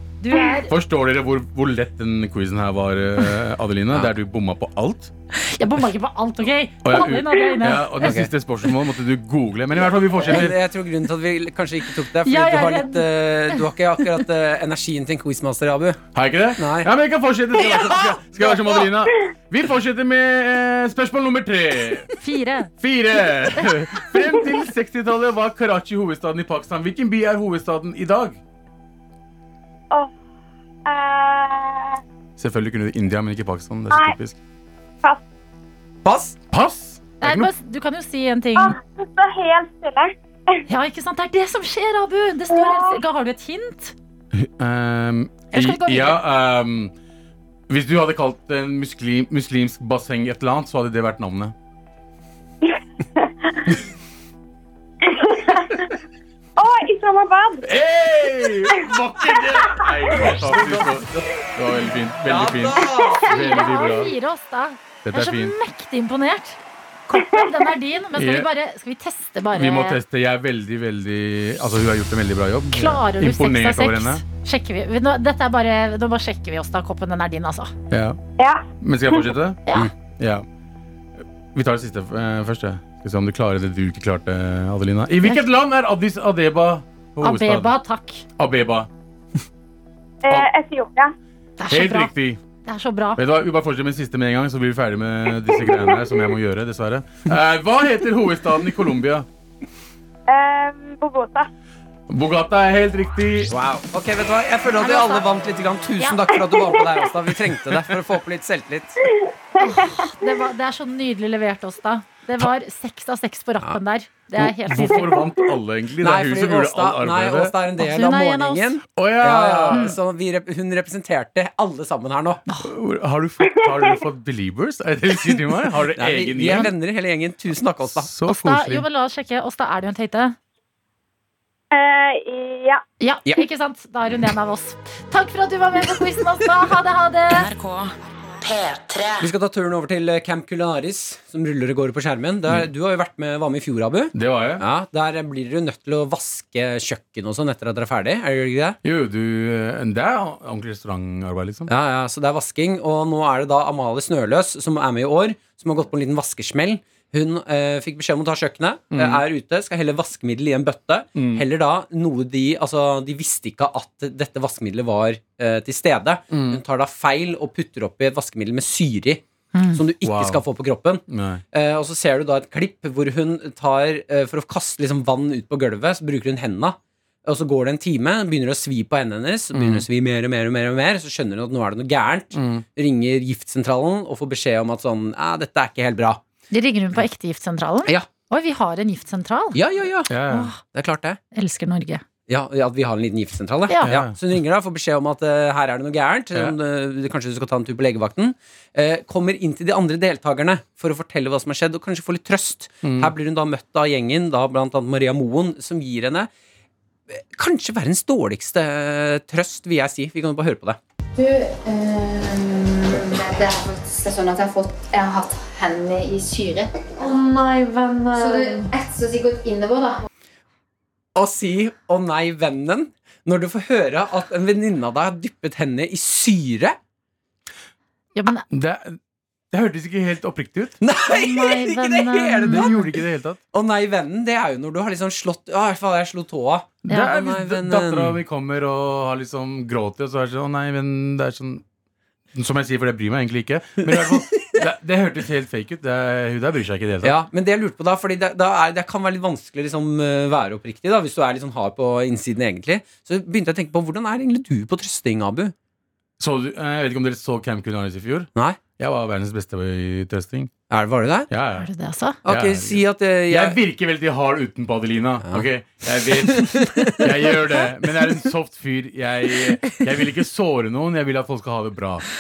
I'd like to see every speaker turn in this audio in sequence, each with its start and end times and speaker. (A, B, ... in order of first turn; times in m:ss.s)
0:00.2-0:00.7 A
0:00.7-0:05.1 B
0:05.4-0:08.1 A
0:06.8-0:10.6 B
0:08.0-0:08.3 C
0:09.8-0:16.0 C
0:12.2-0:13.6 A
0:16.2-0:22.1 B
0:16.6-0:16.9 C
0:17.5-0:18.9 C
0:22.2-0:22.7 A
0:22.8-0:28.4 B
0:30.9-0:32.0 D
0:32.4-0:34.4 B
0:33.9-0:34.2 D
0:36.0-0:36.4 C
0:36.5-0:37.5 B
0:37.2-0:38.8 A
0:38.6-0:40.6 D
0:40.7-0:44.0 A
0:42.5-0:43.0 D
0:44.3-0:46.9 B
0:45.5-0:46.2 A
0:47.7-0:51.5 B
0:52.6-0:53.7 D
0:55.0-0:55.9 D
0:56.6-0:57.6 D
0:57.6-1:04.2 B
0:59.3-1:00.2 D
1:00.4-1:01.0 C
1:02.2-1:03.2 C
1:02.8-1:03.2 D
1:03.2-1:10.0 A
1:05.0-1:05.5 B
1:07.2-1:07.6 D
1:08.2-1:08.5 B
1:09.5-1:14.2 B
1:12.7-1:17.7 A
1:17.9-1:18.2 B
1:18.4-1:19.2 D
1:18.8-1:20.4 B
1:21.5-1:27.7 B
1:27.2-1:28.2 A
1:28.4-1:28.9 B
1:30.2-1:31.1 D
1:31.6-1:32.1 A
1:31.7-1:32.4 B
1:32.6-1:33.2 A
1:33.2-1:39.3 B
1:35.7-1:36.0 D
1:40.3-1:41.5 D
1:42.1-1:43.5 B
1:43.5-1:49.0 C
1:44.8-1:45.3 A
1:46.4-1:47.1 D
1:49.0-1:50.3 D
1:49.6-1:55.2 A
1:54.4-1:57.5 B
1:56.0-2:02.4 C
1:57.8-1:58.8 A
1:59.0-1:59.9 B
2:02.6-2:06.7 B
2:06.0-2:08.1 C
2:07.9-2:08.9 B
2:08.3-2:10.4 A
2:11.7-2:12.8 D
2:13.0-2:17.5 A
2:17.3-2:19.3 E
2:19.2-2:28.8 C
2:24.2-2:24.6 B
2:28.8-2:31.7 B
2:31.7-2:49.2 C
2:38.9-2:39.2 B
2:41.2-2:41.4 B
2:46.3-2:46.6 B
2:49.5-2:49.8 A
2:49.7-3:06.2 C
2:50.0-2:50.4 B
2:51.1-2:51.4 B
2:59.6-2:59.8 B
3:02.4-3:02.6 B
3:06.5-3:09.6 A
3:09.5-3:11.2 C
3:10.1-3:10.5 B
3:10.3-3:10.6 A
3:11.3-3:12.0 A
3:12.3-3:26.3 C
3:13.7-3:14.0 A
3:13.8-3:14.2 B
3:22.8-3:23.1 B
3:27.1-3:30.8 C
3:31.2-3:40.1 F
3:41.2-3:46.8 C
3:48.2-3:48.4 A
3:48.5-3:49.0 B
3:49.5-3:50.8 B
3:50.8-3:52.9 C
3:51.1-3:52.9 A
3:52.5-3:53.4 B
3:53.5-3:58.2 C
3:56.8-4:01.6 B
4:02.4-4:07.2 B
4:03.9-4:04.6 C
4:07.0-4:15.5 C
4:16.2-4:20.5 B
4:18.4-4:18.6 C
4:20.7-4:21.3 C
4:21.3-4:21.7 B
4:21.6-4:22.2 A
4:22.2-4:23.6 C
4:22.3-4:32.0 B
4:26.1-4:27.4 C